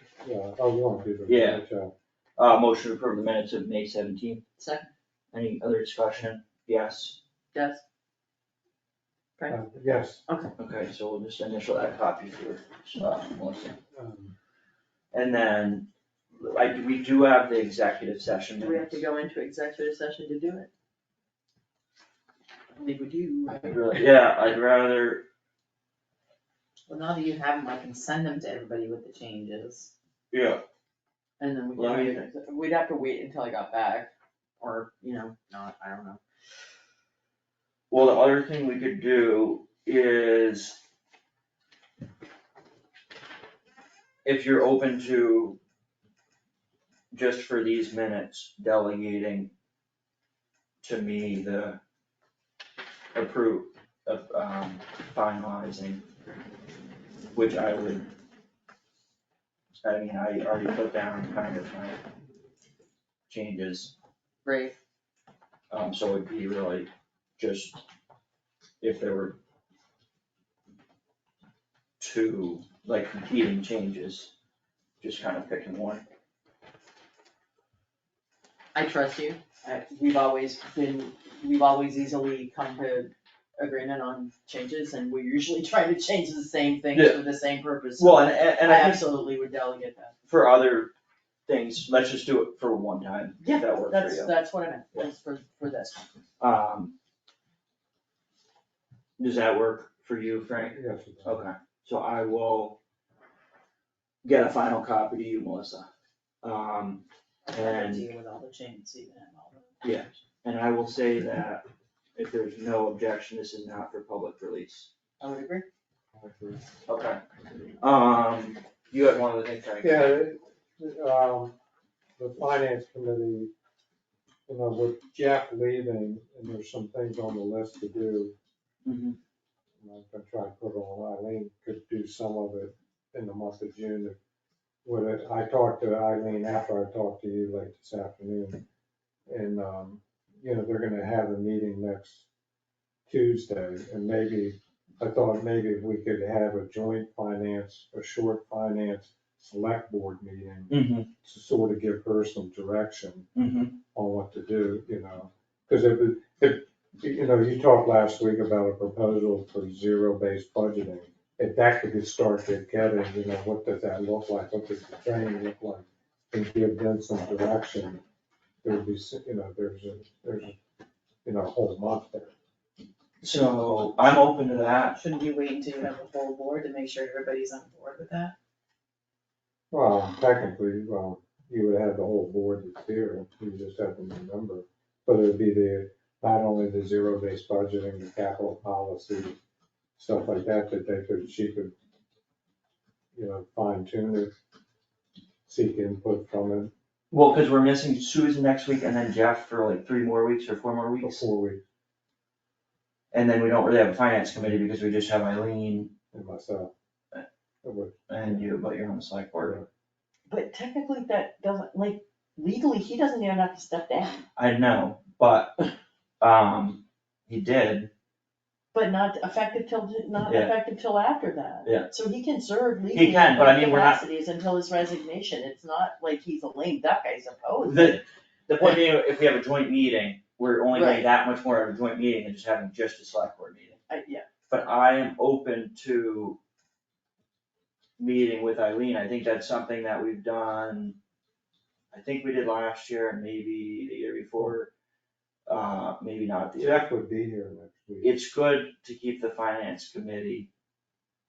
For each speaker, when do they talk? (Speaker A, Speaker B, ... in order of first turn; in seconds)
Speaker A: 0.2-1.9, 9.5-10.2, 13.9-14.3, 100.6-101.5, 116.2-116.6, 119.8-121.5, 122.2-123.5, 124.5-128.3, 129.8-134.2, 134.8-138.6, 139.3-142.2, 143.1-153.3, 153.9-168.0, 168.6-170.6, 171.2-172.3, 179.7-189.3, 190.0-191.7, 193.1-194.3, 195.4-196.7, 201.0-201.6, 206.1-206.7, 207.6-208.5, 209.4-209.7, 246.6-248.2
Speaker B: 1.3-1.6, 2.4-4.4, 5.3-7.2, 10.6-13.8, 15.1-19.0, 23.6-25.2, 30.3-30.6, 31.8-32.3, 37.9-40.8, 44.2-45.6, 47.1-49.5, 50.8-51.8, 53.1-56.0, 57.3-58.1, 59.8-62.0, 63.3-63.9, 65.7-67.8, 68.8-69.4, 72.0-74.3, 75.0-76.0, 86.9-87.2, 88.0-89.1, 90.3-90.9, 91.5-94.3, 96.4-96.9, 99.2-102.8, 104.2-105.9, 106.4-108.1, 109.8-114.9, 116.9-117.2, 117.8-120.2, 128.8-129.2, 150.7-151.1, 153.3-153.8, 173.2-175.0, 197.1-201.2, 203.1-205.9, 208.1-209.6, 214.3-215.7, 216.2-217.9, 220.2-220.5, 221.6-221.9, 222.9-224.0, 227.6-233.8, 234.5-236.4, 238.0-241.0, 241.9-244.7, 245.5-246.8, 248.0-250.5
Speaker C: 4.6-4.9, 7.5-7.8, 10.3-10.5, 18.6-20.7, 22.8-23.8, 26.9-27.5, 31.4-36.2, 64.5-64.7, 78.8-90.2, 93.4-96.1, 107.5-109.5, 115.2-115.7, 210.3-214.2, 218.7-228.0, 230.7-231.1, 233.9-234.2
Speaker D: 26.9-29.9, 107.5-109.4, 175.0-178.3